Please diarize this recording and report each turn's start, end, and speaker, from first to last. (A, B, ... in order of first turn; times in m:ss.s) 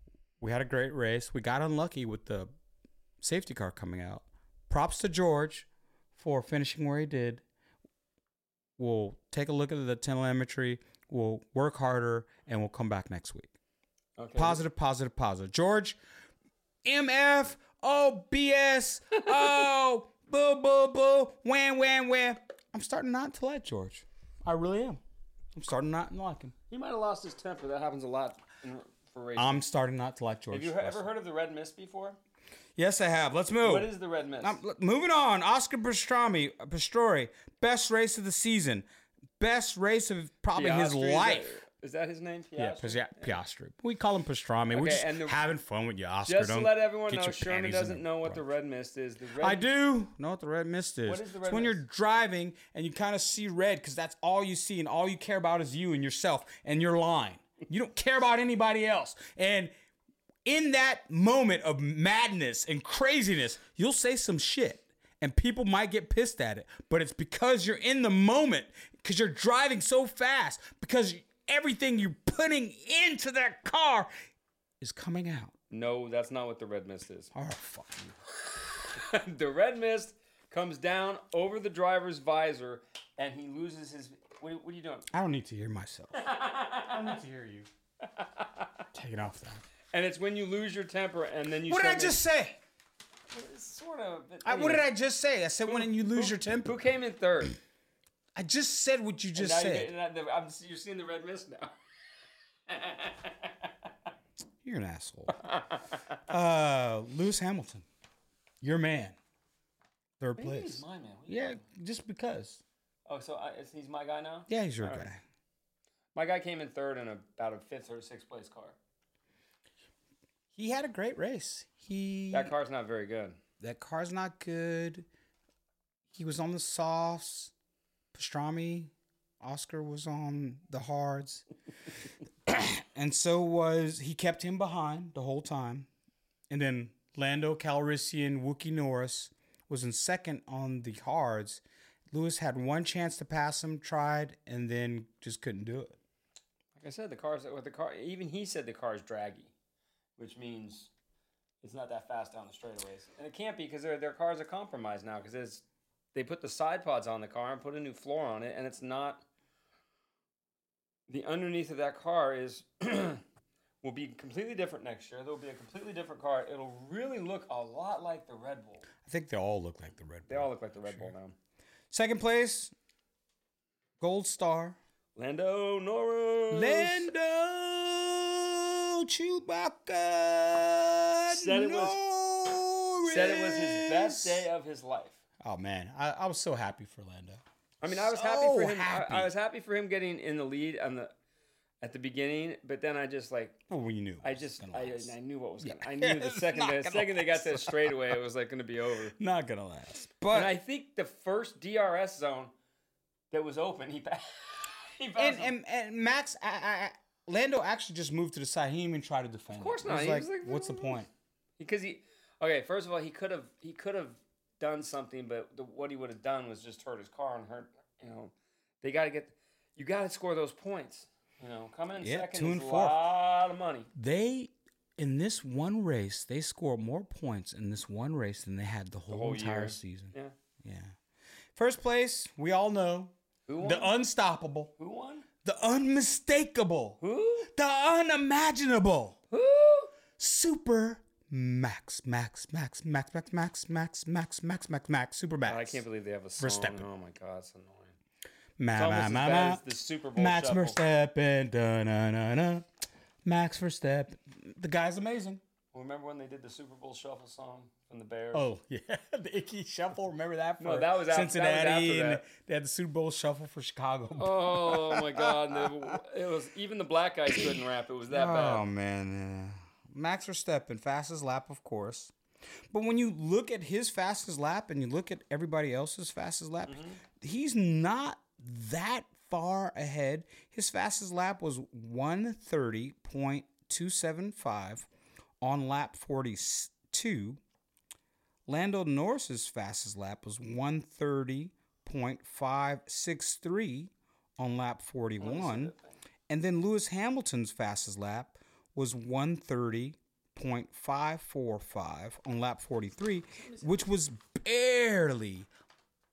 0:00.4-0:02.5 A
0:03.2-0:07.4 A
0:08.8-0:13.6 A
0:14.2-0:14.6 B
0:14.4-0:16.0 A
0:16.8-0:25.0 A
0:25.5-0:26.5 A
0:26.7-0:29.6 B
0:29.4-0:31.1 A
0:30.5-0:32.2 B
0:32.8-0:38.9 A
0:33.6-0:34.6 B
0:39.4-0:41.5 A
0:40.5-0:43.3 B
0:42.6-0:48.4 A
0:44.7-0:45.4 B
0:46.2-0:49.7 B
0:49.4-0:59.7 A
0:51.1-0:51.8 B
1:00.4-1:14.1 A
1:14.8-1:15.5 A
1:15.7-1:17.3 B
1:17.3-1:18.2 A
1:18.5-1:25.1 B
1:25.1-1:26.3 A
1:26.1-1:27.2 B
1:26.9-1:27.7 A
1:28.0-1:28.8 B
1:28.9-1:29.6 A
1:29.9-1:32.2 B
1:31.7-1:32.6 A
1:33.3-1:34.9 B
1:34.4-1:36.8 A
1:35.7-1:37.6 B
1:38.4-1:39.9 A
1:39.4-1:41.7 B
1:42.7-1:43.7 B
1:44.6-1:45.4 A
1:45.4-1:46.0 B
1:46.3-1:47.9 A
1:48.6-1:49.2 A
1:50.2-1:52.6 A
1:50.4-1:51.6 B
1:53.1-1:55.1 B
1:54.5-1:55.2 A
1:56.2-1:58.8 B
2:00.5-2:02.5 A
2:02.3-2:03.4 B
2:03.6-2:05.1 A
2:06.1-2:07.5 A
2:08.1-2:11.5 A
2:12.5-2:15.9 A
2:16.5-2:26.0 A
2:26.8-2:29.5 B
2:30.2-2:30.9 B
2:31.6-2:35.6 B
2:36.1-2:39.2 B
2:41.1-2:43.2 B
2:43.8-2:48.9 B
2:49.0-2:51.1 A
2:50.3-2:51.4 B
2:51.9-2:52.7 A
2:54.0-2:54.8 A
2:55.2-2:57.1 B
2:56.5-3:04.4 A
3:01.3-3:02.0 B
3:03.0-3:05.2 B
3:05.4-3:09.3 A
3:07.8-3:11.1 B
3:11.8-3:13.6 B
3:13.7-3:18.2 A
3:14.2-3:19.2 B
3:19.2-3:20.5 A
3:20.3-3:22.5 B
3:23.3-3:25.5 B
3:25.2-3:31.1 A
3:29.5-3:31.0 B
3:31.6-3:43.9 B
3:42.0-3:43.0 A
3:44.0-3:51.0 A
3:49.1-3:50.3 B
3:51.6-3:54.7 A
3:53.5-3:53.9 B
3:54.8-3:55.3 B
3:55.4-3:59.2 A
3:57.0-3:57.5 B
3:59.3-3:59.9 B
4:00.2-4:05.8 A
4:05.5-4:08.0 B
4:06.4-4:06.9 A
4:08.6-4:09.6 A
4:08.8-4:10.8 B
4:10.2-4:12.7 A
4:13.2-4:15.4 A
4:15.7-4:18.5 B
4:18.3-4:26.0 A
4:20.6-4:22.2 B
4:24.2-4:28.6 B
4:28.1-4:32.1 A
4:32.7-4:44.9 A
4:36.7-4:37.0 B
4:45.4-4:47.4 A
4:48.5-4:55.7 A
4:55.2-4:56.0 B
4:56.3-5:05.5 A
5:03.4-5:03.7 B